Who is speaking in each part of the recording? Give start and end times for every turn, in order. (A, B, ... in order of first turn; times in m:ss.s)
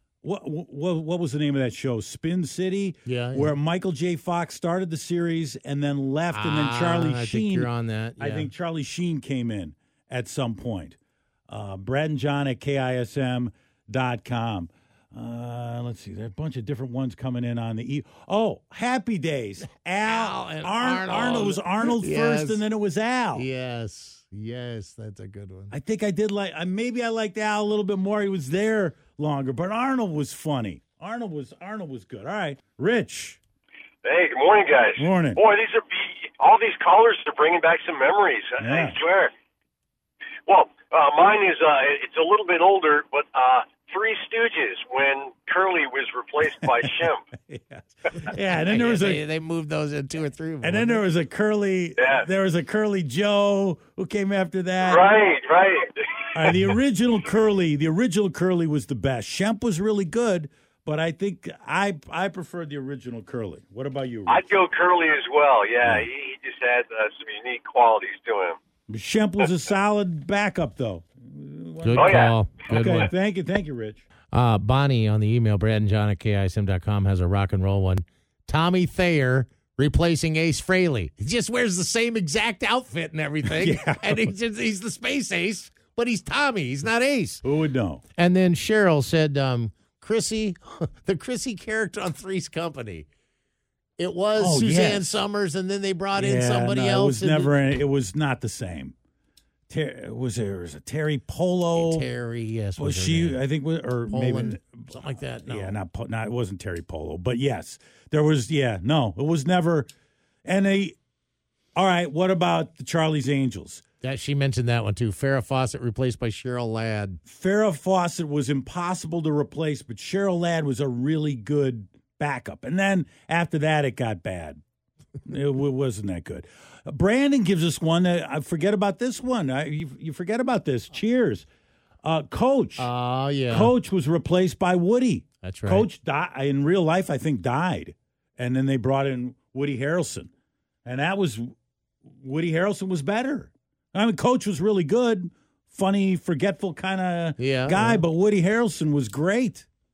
0:00.2-0:11.0 A
0:03.0-0:03.6 B
0:06.3-0:08.5 B
0:11.5-0:23.4 A
0:20.0-0:22.6 B
0:23.3-0:25.7 B
0:25.7-0:33.4 A
0:34.0-0:39.3 C
0:35.0-0:35.4 A
0:38.6-0:39.0 A
0:40.4-0:47.2 C
0:46.8-0:49.2 A
0:48.4-0:51.0 B
0:50.6-0:55.1 A
0:52.0-0:52.3 C
0:54.8-0:56.8 C
0:56.3-1:04.4 A
1:04.3-1:08.6 C
1:08.9-1:12.1 A
1:11.8-1:13.1 B
1:11.9-1:12.3 C
1:12.7-1:14.0 A
1:14.3-1:27.4 B
1:23.5-1:24.3 A
1:27.4-1:28.0 A
1:28.2-1:33.1 B
1:34.0-1:37.8 B
1:34.4-1:35.2 A
1:36.1-1:38.9 A
1:39.7-1:42.0 A
1:41.7-1:43.4 B
1:42.8-1:49.9 A
1:44.1-1:45.8 B
1:50.4-1:51.0 A
1:51.7-1:53.8 A
1:54.0-1:57.2 B
1:57.2-2:04.6 A
2:05.2-2:11.4 A
2:12.0-2:12.9 A
2:12.8-2:13.7 B
2:13.5-2:20.3 A
2:15.4-2:15.9 B
2:20.8-2:21.5 A
2:22.2-2:29.7 A
2:27.4-2:28.0 B